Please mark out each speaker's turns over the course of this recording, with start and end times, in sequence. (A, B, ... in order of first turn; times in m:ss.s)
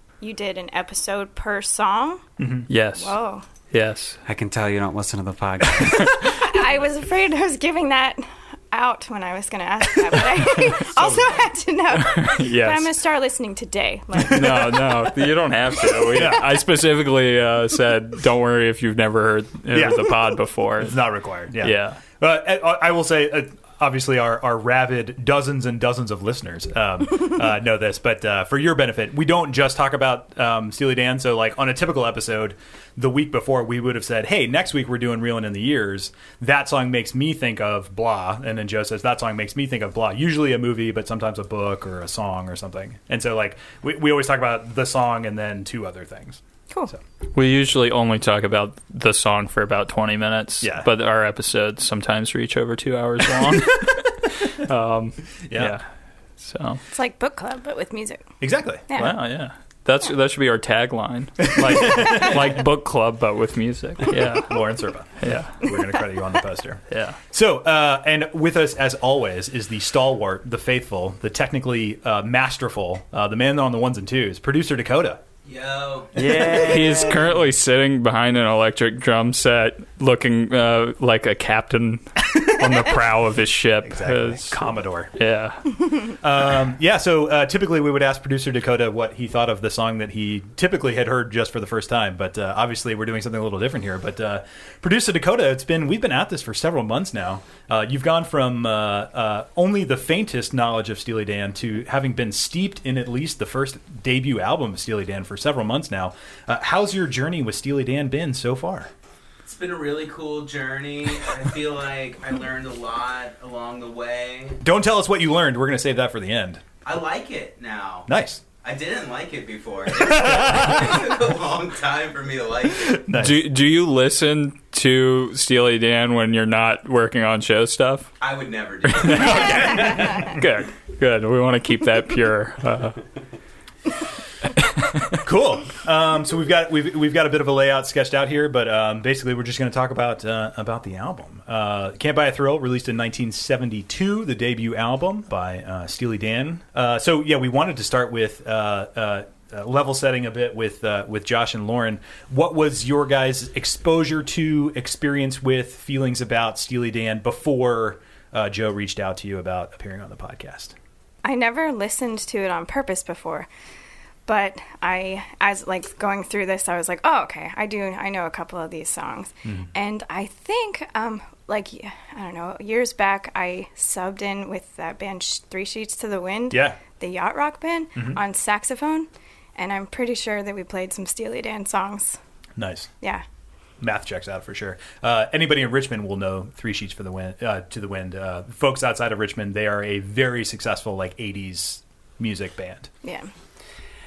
0:00.2-0:02.2 A
0:02.4-0:02.7 B
0:02.7-0:03.1 C
0:03.0-0:03.4 A
0:03.7-0:04.2 C
0:04.2-0:06.2 D
0:06.2-0:14.7 A
0:11.9-0:12.9 C
0:14.2-0:15.2 B
0:14.2-0:21.0 C
0:16.0-0:16.6 B
0:19.7-0:20.2 B
0:20.8-0:47.0 B
0:21.6-0:22.0 C
0:47.3-0:55.8 C
0:50.6-0:50.9 B
0:55.5-0:55.8 B
0:56.4-0:56.8 C
0:56.9-0:58.2 A
0:58.4-0:58.9 B
0:58.9-0:59.2 A
0:59.0-1:04.6 C
1:01.4-1:02.5 B
1:04.1-1:15.2 B
1:05.2-1:05.5 C
1:06.9-1:07.2 C
1:15.4-1:16.4 E
1:16.1-1:17.3 D
1:16.3-1:24.6 C
1:23.8-1:25.1 B
1:25.1-1:25.6 C
1:26.2-1:48.9 B
1:49.4-1:54.6 E
1:54.6-1:56.6 B
1:56.8-1:58.1 E
1:58.1-1:58.4 B
1:58.6-2:03.0 E
2:00.0-2:01.0 B
2:02.8-2:03.4 B
2:03.1-2:08.1 C
2:08.2-2:10.2 E
2:08.9-2:13.0 C
2:09.0-2:10.4 B
2:14.6-2:15.2 C
2:15.2-2:40.7 B
2:41.2-2:43.5 A
2:44.2-3:02.2 A
2:56.5-2:56.8 B
3:02.6-3:02.9 B
3:03.8-3:12.9 B
3:13.0-3:13.3 A